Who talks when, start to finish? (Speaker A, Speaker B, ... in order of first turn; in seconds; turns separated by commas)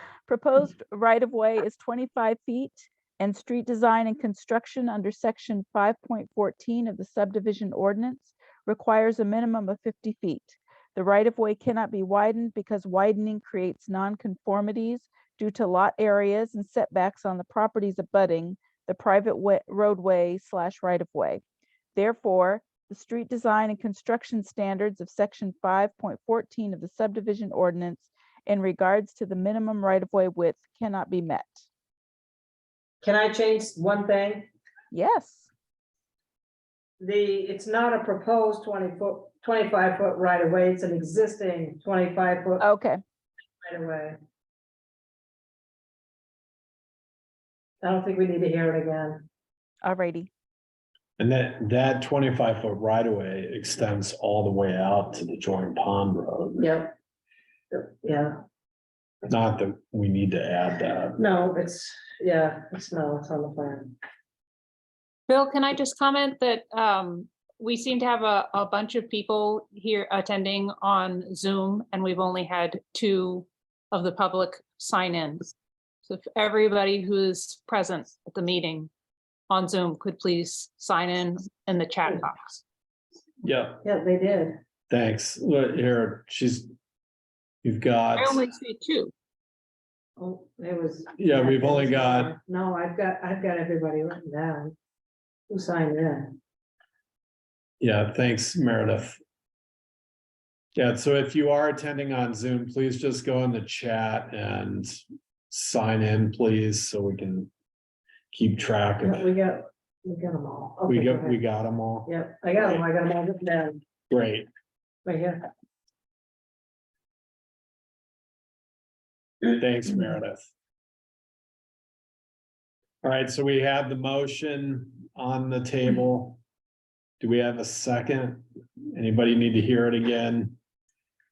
Speaker A: 0.3-21.4, Speaker A: 21.9-31.7, Speaker B: 33.0-34.5, Speaker A: 34.9-35.5, Speaker B: 37.0-42.6, Speaker A: 42.6-43.0, Speaker B: 43.6-44.1, Speaker B: 47.8-49.2, Speaker A: 49.8-50.3, Speaker C: 51.2-56.7, Speaker B: 56.6-56.9, Speaker B: 57.7-58.4, Speaker C: 59.2-61.2, Speaker B: 61.2-64.0, Speaker D: 65.3-75.5, Speaker D: 76.0-78.9, Speaker D: 79.5-82.6, Speaker C: 83.4-83.8, Speaker B: 83.8-84.6, Speaker C: 84.9-86.7, Speaker C: 87.6-88.5, Speaker D: 88.2-89.1, Speaker B: 90.2-94.8, Speaker C: 91.2-92.3, Speaker B: 95.5-96.2, Speaker C: 97.8-99.2, Speaker C: 100.8-107.5, Speaker C: 108.3-109.3, Speaker B: 109.0-111.4, Speaker C: 110.9-112.8, Speaker B: 112.1-113.8, Speaker C: 114.1-114.5, Speaker B: 115.0-115.4, Speaker C: 119.4-120.5, Speaker C: 123.0-126.4, Speaker C: 127.2-130.6